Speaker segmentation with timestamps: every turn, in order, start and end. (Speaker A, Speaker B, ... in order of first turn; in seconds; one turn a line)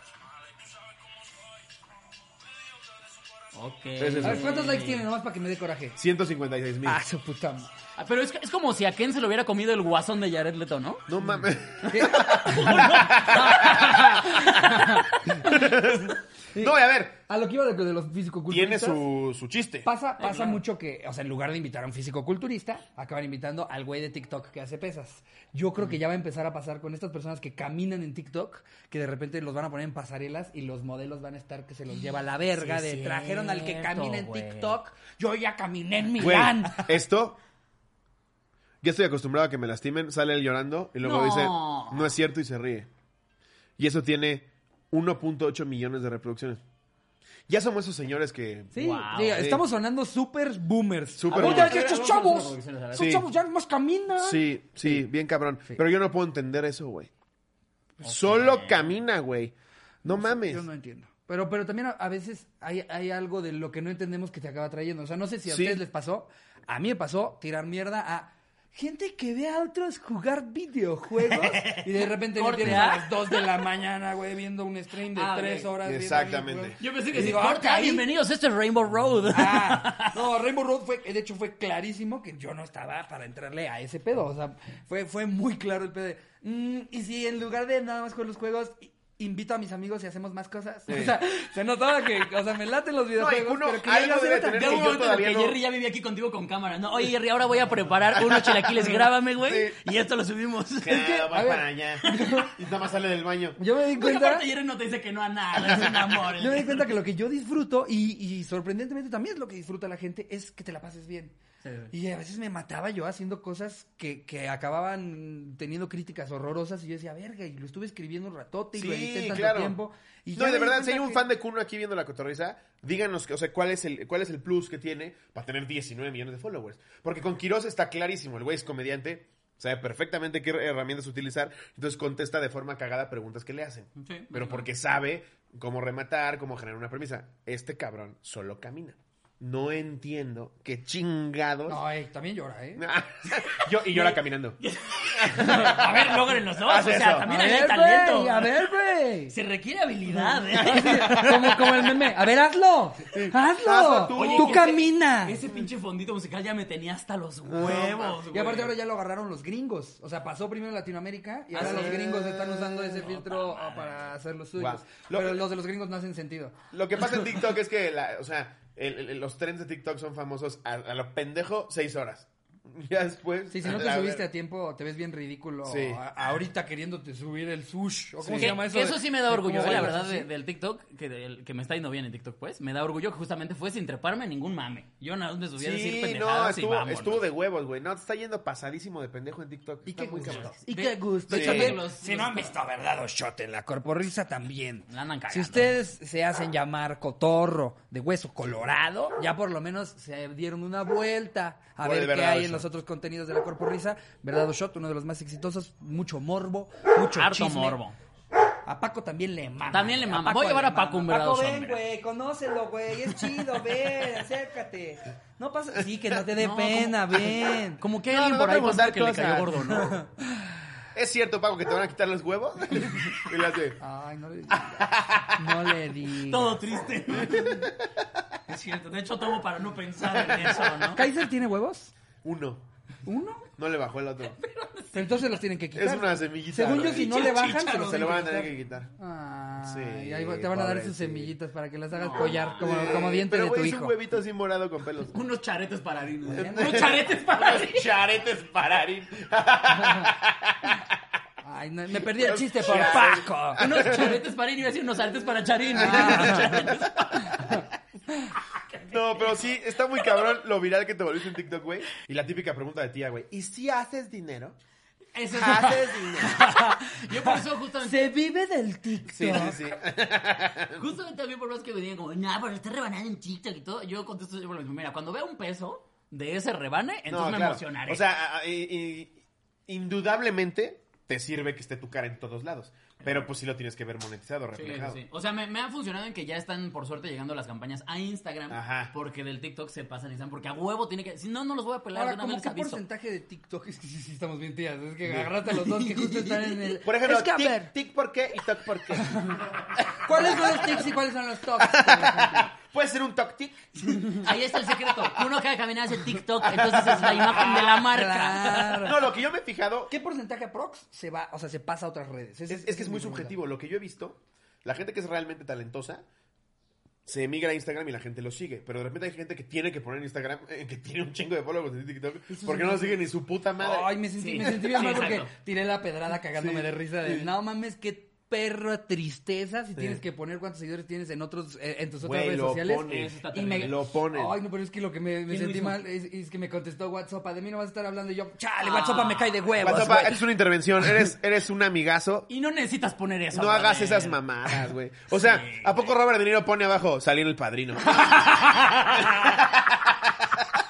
Speaker A: 3.5-5.0
Speaker B: 4.0-4.4
Speaker C: 4.2-6.0
Speaker B: 6.0-7.0
Speaker C: 6.8-7.7
Speaker A: 8.0-11.1
Speaker B: 11.1-14.1
Speaker C: 11.9-13.0
Speaker A: 11.9-15.5
Speaker C: 14.2-16.7
Speaker B: 15.5-17.2
Speaker C: 17.2-19.0
Speaker B: 18.5-19.9
Speaker C: 19.8-37.0
Speaker A: 20.2-20.6
Speaker A: 32.5-34.8
Speaker B: 36.1-37.4
Speaker B: 38.8-42.9
Speaker A: 41.0-42.1
Speaker B: 43.8-46.6
Speaker B: 47.5-48.8
Speaker C: 48.7-55.0
Speaker A: 48.8-49.4
Speaker B: 49.3-49.6
Speaker B: 51.2-51.8
Speaker A: 51.3-53.2
Speaker B: 53.0-53.3
Speaker B: 54.2-57.1
Speaker B: 58.0-59.5
Speaker A: 58.1-58.9
Speaker B: 60.0-60.6
Speaker C: 60.0-78.0
Speaker B: 65.5-65.8
Speaker A: 71.2-73.5
Speaker A: 75.1-75.7
Speaker B: 75.8-76.8
Speaker A: 76.8-80.2
Speaker C: 79.3-94.9
Speaker B: 90.9-91.2
Speaker B: 93.2-95.6
Speaker A: 94.5-101.1
Speaker B: 98.3-98.6
Speaker B: 99.4-99.8
Speaker B: 100.8-103.6
Speaker C: 100.9-102.5
Speaker A: 102.0-102.4
Speaker C: 103.6-104.5
Speaker A: 103.9-107.0
Speaker B: 105.7-106.0
Speaker C: 106.4-111.3
Speaker A: 111.6-111.9
Speaker C: 111.9-121.2
Speaker B: 118.8-119.8
Speaker B: 120.3-141.8
Speaker A: 134.0-134.7
Speaker C: 141.7-142.9
Speaker B: 142.8-144.6
Speaker A: 143.4-148.6
Speaker B: 145.1-147.3
Speaker C: 147.3-149.3
Speaker A: 149.3-152.0
Speaker C: 150.2-155.4
Speaker B: 153.1-154.7
Speaker A: 154.1-158.7
Speaker B: 157.4-158.2
Speaker C: 157.6-166.6
Speaker B: 161.5-163.1
Speaker A: 161.5-162.1
Speaker A: 163.0-164.1
Speaker B: 164.6-165.4
Speaker B: 166.7-174.3
Speaker C: 173.5-180.3
Speaker B: 175.6-176.0
Speaker B: 178.2-178.7
Speaker A: 178.4-187.3
Speaker B: 179.6-180.1
Speaker B: 185.6-190.5
Speaker C: 189.8-207.8
Speaker A: 190.2-192.5
Speaker B: 191.3-191.8
Speaker A: 194.9-195.7
Speaker B: 201.8-202.7
Speaker A: 207.1-208.0
Speaker C: 208.6-217.8
Speaker A: 209.7-211.8
Speaker A: 216.4-220.0
Speaker B: 218.1-219.8
Speaker C: 219.8-220.4
Speaker B: 220.9-223.8
Speaker C: 223.8-226.6
Speaker B: 224.6-225.6
Speaker A: 226.2-227.7
Speaker B: 227.1-228.0
Speaker A: 228.5-231.0
Speaker B: 230.1-230.8
Speaker C: 230.9-231.9
Speaker B: 232.2-232.6
Speaker C: 233.1-233.5
Speaker B: 233.6-234.4
Speaker A: 234.3-235.3
Speaker C: 234.9-243.9
Speaker B: 235.8-238.9
Speaker A: 236.7-238.4
Speaker B: 239.6-241.3
Speaker A: 241.9-242.9
Speaker B: 242.1-245.1
Speaker A: 245.1-248.0
Speaker B: 246.2-251.0
Speaker C: 246.3-246.9
Speaker C: 251.4-253.7
Speaker B: 251.9-254.2
Speaker A: 253.6-257.7
Speaker B: 255.7-257.6
Speaker C: 255.8-256.6
Speaker A: 258.5-259.4
Speaker B: 258.9-264.6
Speaker A: 265.1-268.1
Speaker B: 265.3-266.4
Speaker C: 266.2-269.6
Speaker B: 269.1-270.8
Speaker A: 270.8-278.0
Speaker B: 277.1-285.0
Speaker A: 284.5-292.8
Speaker B: 288.5-288.9
Speaker C: 291.9-297.7
Speaker B: 295.0-295.3
Speaker A: 295.5-296.8
Speaker B: 296.8-300.9
Speaker C: 299.0-299.4
Speaker C: 300.0-302.5
Speaker B: 301.6-304.3
Speaker A: 303.8-308.9
Speaker B: 306.4-307.9
Speaker C: 307.6-309.0
Speaker B: 308.8-309.9
Speaker C: 309.9-313.3
Speaker B: 312.5-316.0
Speaker B: 317.1-324.4
Speaker C: 322.3-323.0
Speaker C: 323.6-340.2
Speaker A: 324.2-325.3
Speaker B: 326.3-327.3
Speaker B: 329.8-330.0
Speaker B: 332.0-334.3
Speaker A: 332.8-333.8
Speaker A: 335.3-335.8
Speaker A: 338.6-339.4
Speaker B: 339.6-342.3
Speaker A: 342.3-345.9
Speaker B: 343.3-348.3
Speaker A: 347.8-349.4
Speaker B: 349.0-350.3